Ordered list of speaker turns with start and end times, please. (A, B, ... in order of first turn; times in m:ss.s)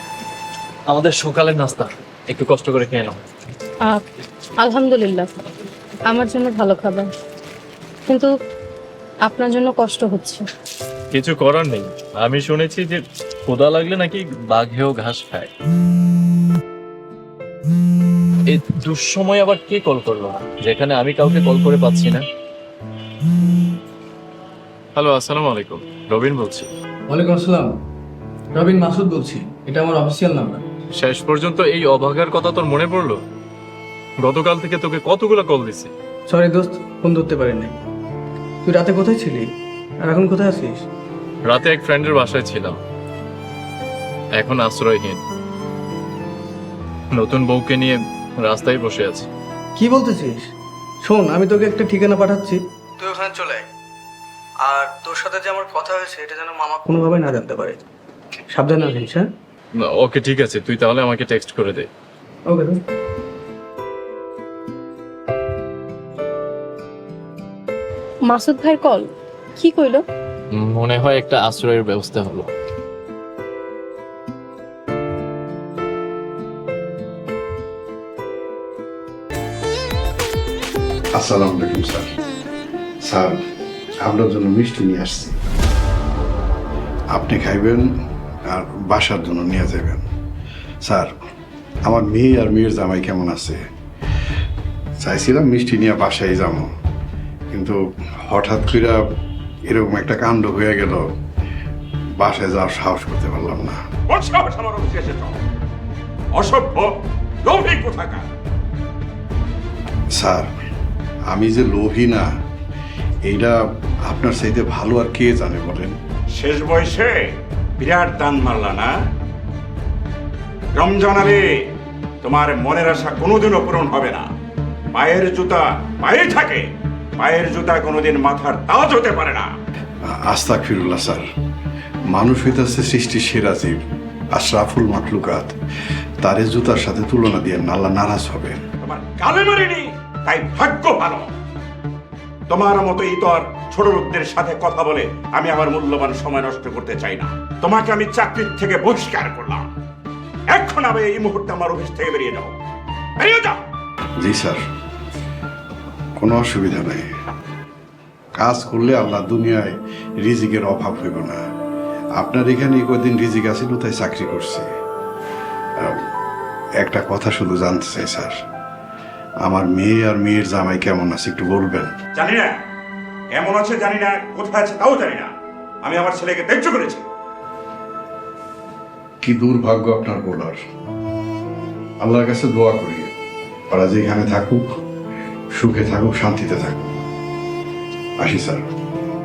0:00.9-0:03.2 A
0:04.6-0:05.3 B
0:06.1-0:07.1 B
0:09.3-0:10.4 B
0:11.1-0:15.5 A
0:18.5-0:22.2 A
0:24.9-0:26.7 A
0:27.1-0:27.7 C
0:28.5-0:30.6 C
0:31.0-0:33.2 A
0:34.2-0:35.9 A
0:36.3-0:37.8 C
0:38.6-0:39.5 C
0:40.0-0:40.8 C
0:41.5-0:42.8 A
0:44.4-0:45.2 A
0:47.1-0:49.3 A
0:49.8-0:50.5 C
0:51.0-0:53.7 C
0:54.6-0:57.8 C
0:58.5-0:59.3 C
1:00.0-1:01.9 A
1:02.5-1:02.8 C
1:08.3-1:10.0 B
1:10.5-1:12.5 A
1:21.1-1:22.1 D
1:23.0-1:23.4 D
1:24.0-1:25.4 D
1:27.1-1:27.9 D
1:28.5-1:30.0 D
1:30.8-1:31.1 D
1:31.8-1:33.6 D
1:35.0-1:36.7 D
1:37.5-1:39.0 D
1:39.7-1:41.0 D
1:42.2-1:43.8 D
1:44.1-1:45.4 E
1:46.3-1:46.9 E
1:47.4-1:48.2 E
1:50.1-1:50.5 D
1:51.3-1:52.3 D
1:53.3-1:56.0 D
1:56.3-1:57.2 E
1:57.8-1:58.9 E
2:00.7-2:01.4 E
2:02.2-2:04.2 E
2:04.9-2:06.6 E
2:07.2-2:09.5 E
2:10.0-2:11.3 D
2:12.1-2:13.8 D
2:14.3-2:15.5 D
2:16.2-2:18.6 D
2:18.8-2:21.2 E
2:22.5-2:29.7 E
2:30.5-2:32.5 E
2:33.2-2:33.6 E
2:34.2-2:34.6 D
2:36.2-2:37.1 D
2:38.4-2:41.4 D
2:42.2-2:44.7 D
2:46.8-2:48.4 D
2:49.4-2:52.0 D
2:52.1-2:52.5 E
2:53.3-2:55.3 E
2:55.8-2:57.0 E
2:59.2-3:00.6 D
3:02.0-3:03.1 D
3:03.7-3:04.6 D
3:05.5-3:06.9 D
3:08.2-3:08.6 D